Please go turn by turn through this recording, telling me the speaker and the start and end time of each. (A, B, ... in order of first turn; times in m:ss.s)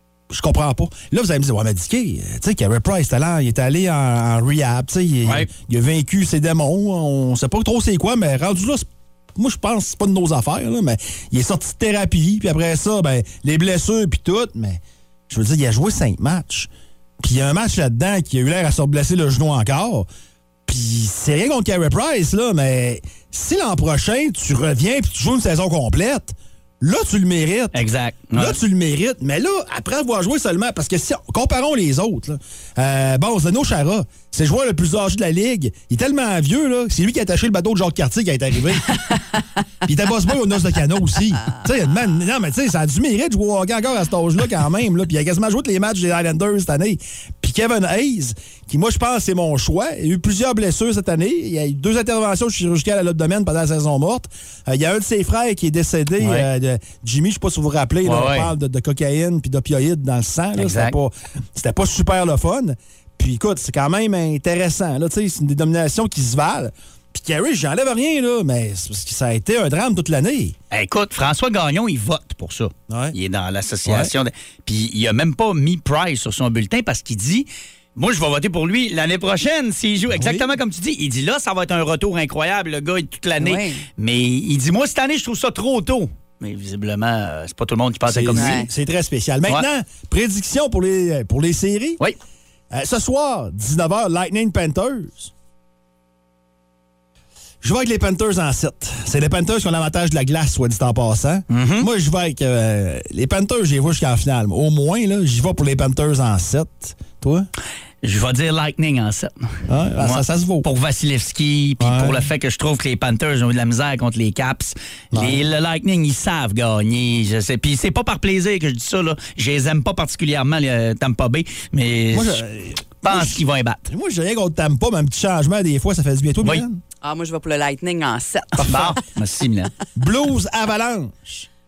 0:00.3-0:16.7 A
0:17.2-0:20.1 A
0:20.7-0:27.8 A
0:27.7-0:28.6 B
0:28.3-0:39.0 A
0:39.8-1:10.5 A
0:56.2-0:56.5 B
0:58.0-0:58.5 B
1:00.6-1:01.0 B
1:10.7-1:28.6 B
1:12.9-1:13.2 A
1:13.8-1:14.1 A
1:20.1-1:20.5 A
1:23.4-1:23.8 C
1:28.1-1:32.0 A
1:28.4-1:28.7 C
1:32.7-1:35.3 A
1:37.6-1:47.5 A
1:41.5-1:41.9 B
1:48.0-1:49.5 B
1:49.7-1:50.7 A
1:50.0-2:02.4 B
1:51.8-1:52.2 A
1:55.1-1:55.4 A
2:02.1-2:06.8 A
2:03.0-2:03.8 B
2:07.0-2:09.0 C
2:08.6-2:09.7 B
2:10.0-2:11.5 A